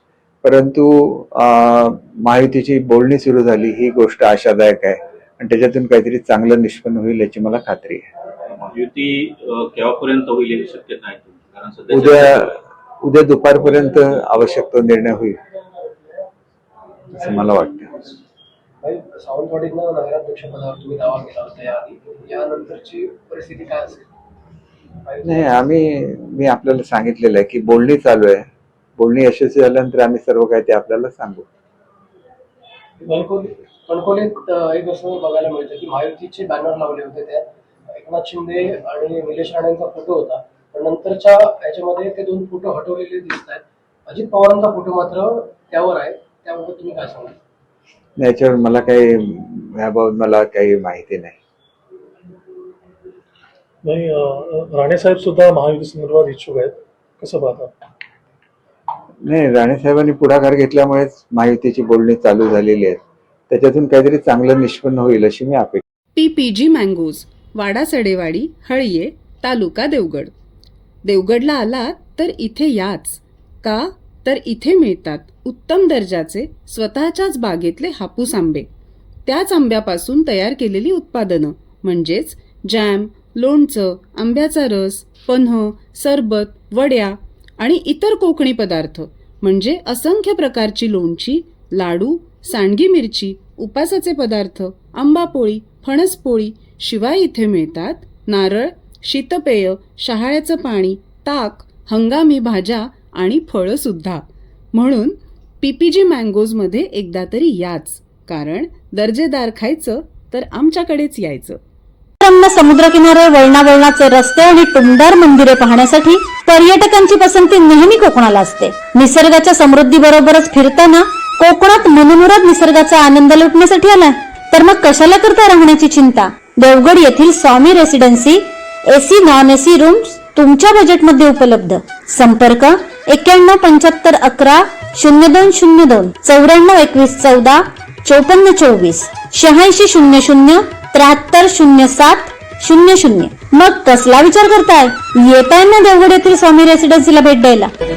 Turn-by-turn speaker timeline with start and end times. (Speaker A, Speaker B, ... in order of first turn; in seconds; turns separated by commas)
Speaker A: 0.4-8.1, Speaker B: 8.5-12.6, Speaker A: 11.9-15.4, Speaker A: 17.1-17.9, Speaker C: 18.8-24.1, Speaker C: 25.1-25.5, Speaker A: 25.2-28.4, Speaker A: 29.0-31.5, Speaker C: 33.0-47.4, Speaker A: 48.2-51.4, Speaker D: 53.8-57.7, Speaker A: 59.3-65.8, Speaker E: 66.2-70.3, Speaker E: 71.0-78.7, Speaker E: 79.3-111.6, Speaker F: 112.2-147.7